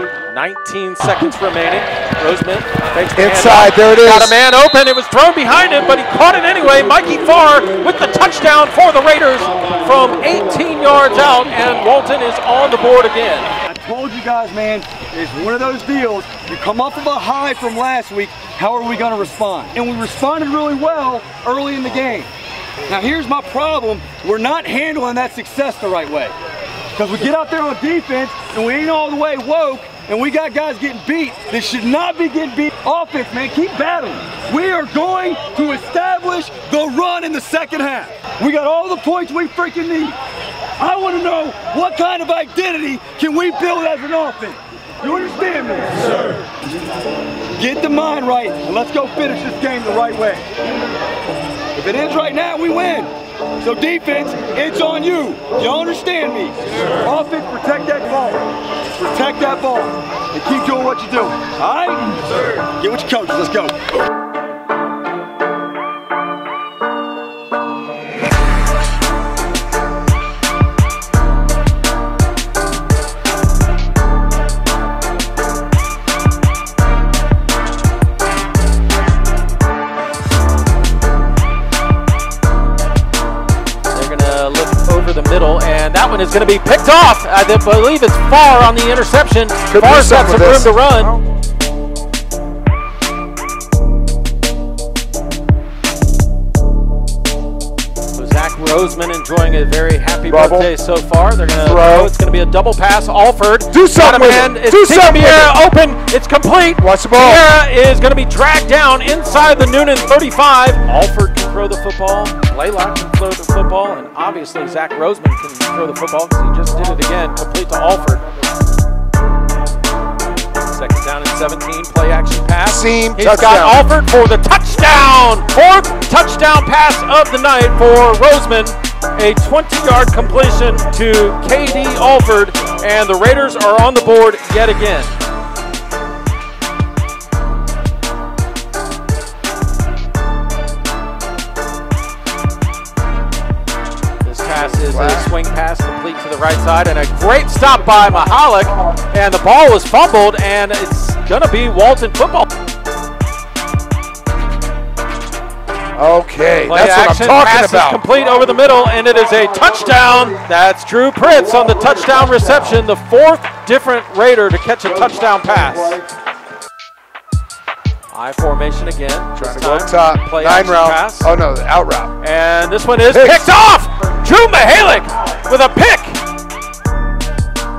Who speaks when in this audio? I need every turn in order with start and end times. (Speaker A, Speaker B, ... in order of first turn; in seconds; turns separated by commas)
Speaker A: 0.3-13.5, Speaker B: 3.2-4.4, Speaker C: 13.7-22.3, Speaker C: 22.9-26.3, Speaker C: 26.9-40.2, Speaker C: 40.8-46.3, Speaker C: 47.6-50.4, Speaker C: 51.8-53.1, Speaker C: 53.6-63.8, Speaker A: 83.9-91.2, Speaker B: 89.7-91.2, Speaker A: 98.2-118.2, Speaker B: 100.3-100.7, Speaker B: 101.6-102.1, Speaker B: 103.7-105.6, Speaker B: 106.8-107.5, Speaker A: 120.7-135.1, Speaker B: 122.7-123.9, Speaker A: 144.2-152.5, Speaker B: 144.9-145.3, Speaker B: 156.0-158.0, Speaker A: 156.7-166.1, Speaker A: 168.1-171.3, Speaker B: 169.4-172.1, Speaker A: 172.2-176.2, Speaker B: 173.1-173.5